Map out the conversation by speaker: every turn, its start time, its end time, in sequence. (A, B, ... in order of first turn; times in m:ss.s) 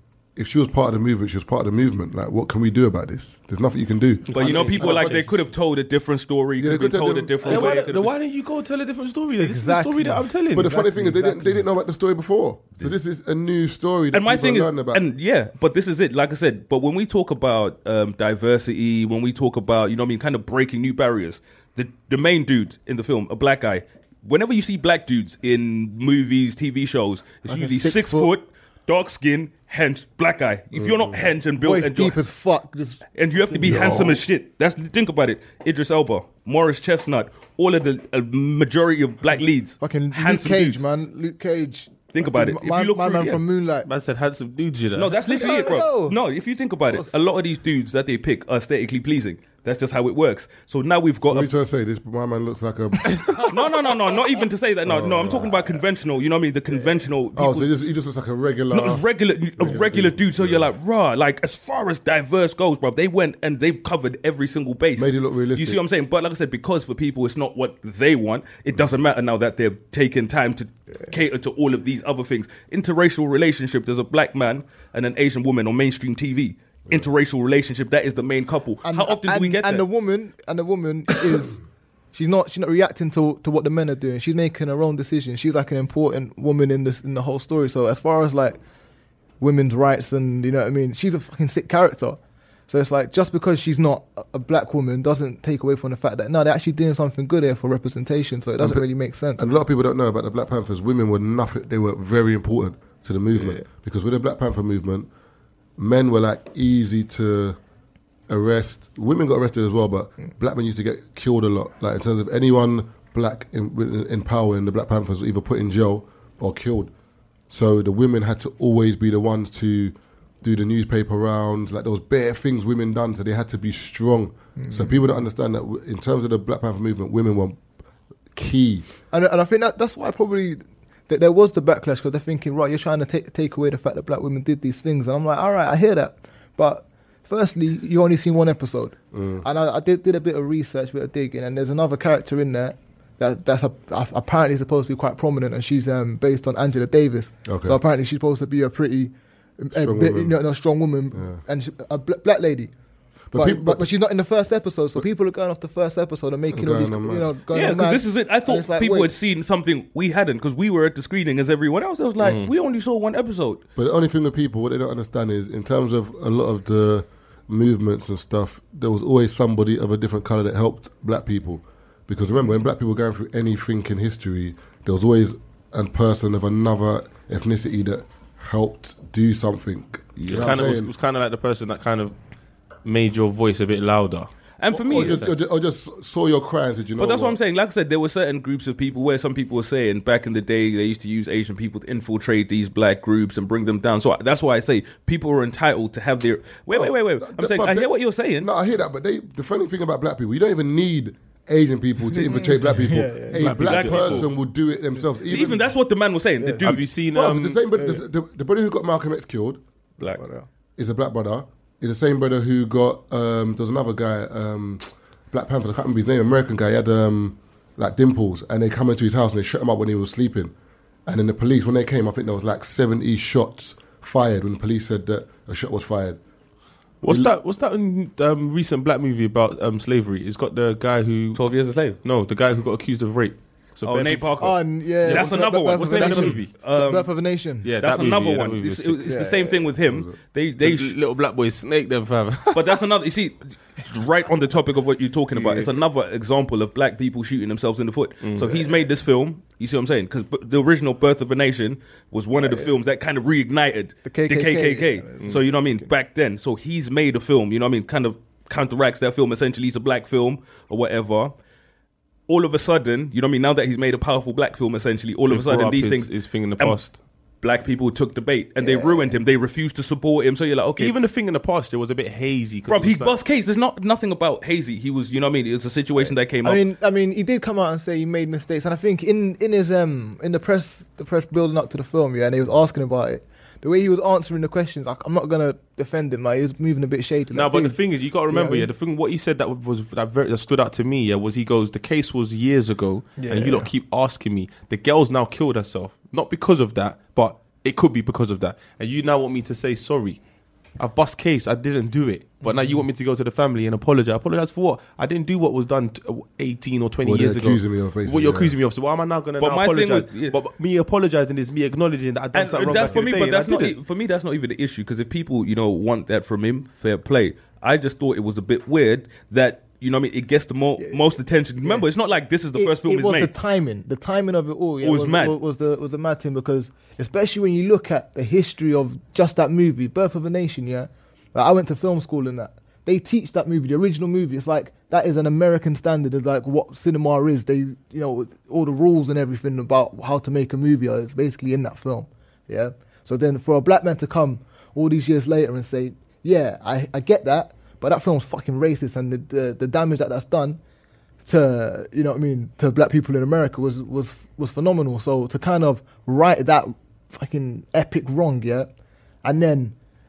0:00.4-0:05.4 A
0:04.3-0:05.3 B
0:04.3-0:08.1 C
0:06.6-0:07.8 A
0:07.4-0:10.8 B
0:09.4-0:11.6 D
0:10.5-0:15.0 A
0:14.1-0:32.2 C
0:27.5-0:28.3 D
0:30.7-0:31.3 A
0:31.6-0:34.0 D
0:33.2-0:40.8 C
0:33.6-0:33.9 B
0:39.8-0:43.9 D
0:42.1-0:43.4 C
0:43.8-0:45.2 B
0:44.9-0:51.5 C
0:45.3-0:46.2 D
0:51.2-0:53.4 A
0:53.4-0:57.7 C
0:54.8-0:55.7 A
0:57.4-0:59.0 A
0:58.7-1:19.8 C
0:59.6-1:00.7 A
1:05.0-1:05.8 A
1:18.8-1:21.6 D
1:22.1-1:28.6 D
1:29.4-1:39.4 D
1:38.6-1:38.8 A
1:39.4-1:45.1 A
1:45.8-1:47.6 A
1:48.3-1:56.9 A
1:57.5-2:07.6 A
2:04.6-2:05.1 D
2:08.3-2:08.9 A
2:09.1-2:32.7 D
2:19.1-2:19.4 A
2:27.4-2:27.8 A
2:29.7-2:30.4 A
2:31.1-2:31.4 A
2:33.3-2:33.9 A
2:33.3-2:39.1 D
2:36.5-2:37.3 A
2:37.5-2:43.6 C
2:42.2-2:42.5 B
2:43.8-3:00.9 A
3:00.2-3:00.7 C
3:00.3-3:02.1 B
3:02.8-3:04.3 B
3:04.6-3:05.2 C
3:04.7-3:07.4 A
3:04.8-3:05.3 B
3:07.0-3:18.5 C
3:16.7-3:25.7 A
3:22.1-3:23.4 D
3:23.4-3:24.3 B
3:23.5-3:24.3 C
3:25.2-3:26.9 C
3:26.4-3:26.6 D
3:26.6-3:27.6 B
3:27.1-3:29.6 A
3:27.7-3:28.0 D
3:30.2-3:30.5 D
3:30.8-3:40.5 A
3:41.0-3:46.2 A
3:47.0-3:51.4 B
3:47.0-3:47.3 A
3:51.3-3:52.0 C
3:52.0-3:54.3 B
3:53.8-3:57.1 C
3:54.4-3:57.7 D
3:55.0-3:56.5 B
3:57.6-3:59.1 B
3:57.8-4:00.9 C
3:59.0-3:59.6 D
3:59.8-4:00.2 A
4:00.6-4:02.8 B
4:02.5-4:21.3 C
4:08.2-4:08.7 B
4:12.4-4:12.7 D
4:14.0-4:15.9 D
4:22.3-4:26.8 C
4:25.3-4:26.9 B
4:27.4-4:30.9 C
4:28.6-4:29.2 D
4:30.8-4:33.1 B
4:32.7-4:36.6 C
4:36.4-4:47.8 D
4:47.3-5:00.2 B
4:48.3-4:48.7 D
4:53.2-4:53.7 D
5:00.8-5:13.8 B
5:02.4-5:02.8 D
5:07.0-5:08.6 A
5:09.4-5:10.4 C
5:12.3-5:23.3 C
5:20.8-5:21.8 D
5:22.5-5:50.6 D
5:24.8-5:25.4 C
5:51.2-5:58.7 D
5:59.2-5:59.7 D